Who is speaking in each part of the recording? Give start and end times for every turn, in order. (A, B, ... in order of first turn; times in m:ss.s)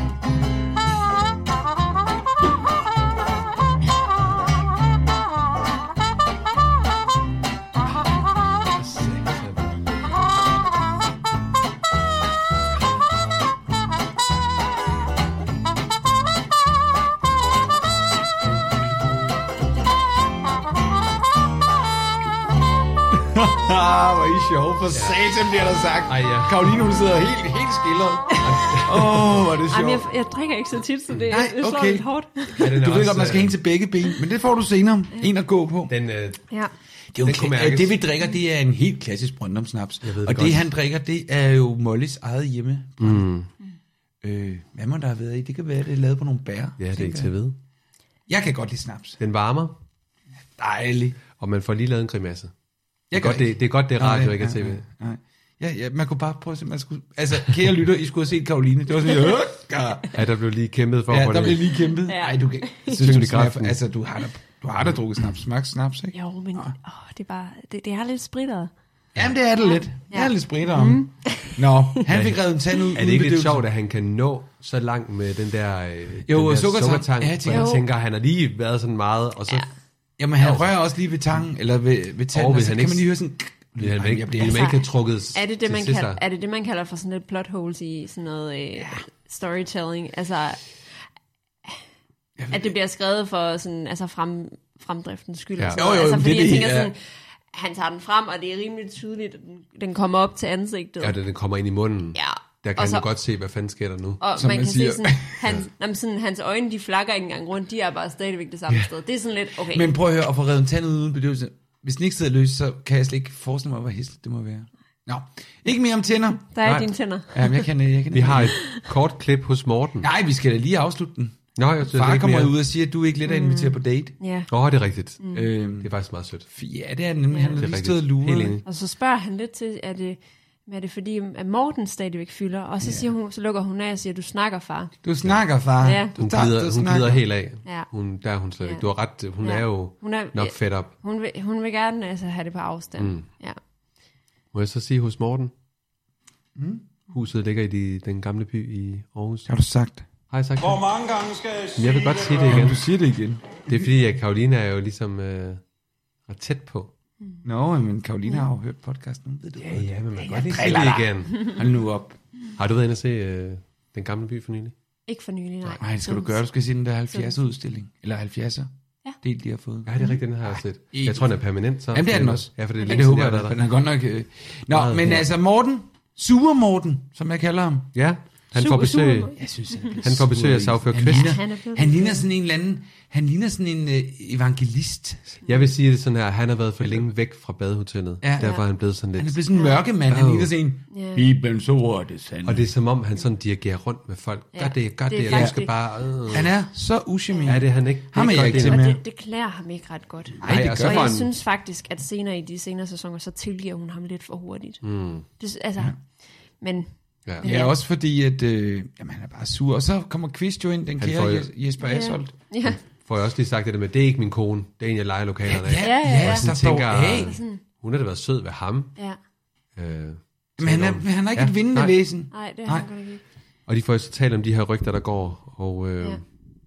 0:08.7-0:10.1 A
0:23.2-0:30.0 B
0:24.9-0:25.3 A
0:26.1-0:26.7 A
0:28.4-0:29.6 A
0:29.7-0:32.6 C
0:31.3-0:36.0 B
0:32.6-0:33.6 A
0:35.9-0:36.4 A
0:37.1-0:43.3 B
0:37.2-0:38.0 A
0:40.0-0:40.7 A
0:43.0-0:43.5 A
0:44.2-0:47.3 B
0:46.8-0:47.6 A
0:48.3-0:49.2 B
0:49.2-0:49.8 A
0:50.6-0:51.2 B
0:51.4-0:52.5 A
0:53.1-1:00.2 B
0:53.1-0:54.8 A
1:00.1-1:01.7 A
1:01.1-1:06.7 B
1:02.1-1:03.0 C
1:02.9-1:03.8 A
1:06.1-1:08.7 C
1:09.2-1:13.7 B
1:09.6-1:11.6 C
1:12.1-1:19.7 A
1:16.3-1:17.7 B
1:17.5-1:17.8 C
1:20.2-1:24.8 B
1:20.4-1:20.7 A
1:22.3-1:23.1 A
1:23.8-1:26.2 A
1:24.4-1:30.6 C
1:28.8-1:29.0 B
1:32.4-1:32.8 B
1:32.5-1:41.2 C
1:35.6-1:35.8 A
1:35.7-1:36.9 B
1:41.0-1:44.2 A
1:42.2-1:43.1 C
1:44.2-1:49.9 C
1:44.4-1:45.4 B
1:49.7-1:56.5 B
1:56.4-1:57.7 C
1:57.3-1:58.6 B
1:58.1-2:00.1 A
2:00.0-2:04.2 B
2:01.6-2:02.5 A
2:03.3-2:04.5 C
2:04.5-2:05.2 A
2:05.2-2:05.5 C
2:05.3-2:05.9 B
2:05.8-2:06.5 A
2:06.5-2:08.6 B
2:07.3-2:07.6 C
2:07.6-2:08.6 A
2:08.6-2:14.9 C
2:12.8-2:13.1 B
2:15.0-2:17.2 B
2:15.8-2:16.1 C
2:16.2-2:20.9 A
2:18.6-2:23.6 C
2:23.0-2:23.3 A
2:24.5-2:25.5 A
2:26.6-2:26.8 B
2:27.1-2:29.5 A
2:29.4-2:30.1 B
2:30.3-2:30.9 A
2:30.6-2:32.7 D
2:31.8-2:32.8 A
2:32.5-2:33.8 B
2:33.7-2:35.6 A
2:36.3-2:36.9 A
2:37.4-2:42.2 B
2:39.6-2:41.5 A
2:42.6-2:44.7 A
2:45.1-2:46.4 C
2:45.8-2:57.9 B
2:49.8-2:53.6 A
2:54.7-2:55.3 A
2:57.9-2:59.4 A
2:58.6-2:59.9 C
2:59.4-3:05.4 B
3:00.0-3:01.4 A
3:01.1-3:02.2 C
3:05.4-3:10.5 A
3:05.4-3:05.7 C
3:06.8-3:07.1 B
3:08.2-3:12.7 B
3:10.9-3:11.2 C
3:12.4-3:16.5 A
3:14.5-3:15.8 C
3:15.3-3:19.0 B
3:17.4-3:18.8 A
3:18.4-3:27.7 C
3:20.4-3:21.2 B
3:20.4-3:21.3 A
3:24.8-3:25.3 A
3:27.4-3:32.4 B
3:31.0-3:31.5 A
3:31.8-3:32.8 C
3:32.6-3:39.0 A
3:35.5-3:37.3 B
3:35.8-3:37.6 C
3:39.7-3:42.0 A
3:40.6-3:42.9 B
3:42.3-3:43.2 C
3:43.7-3:46.2 A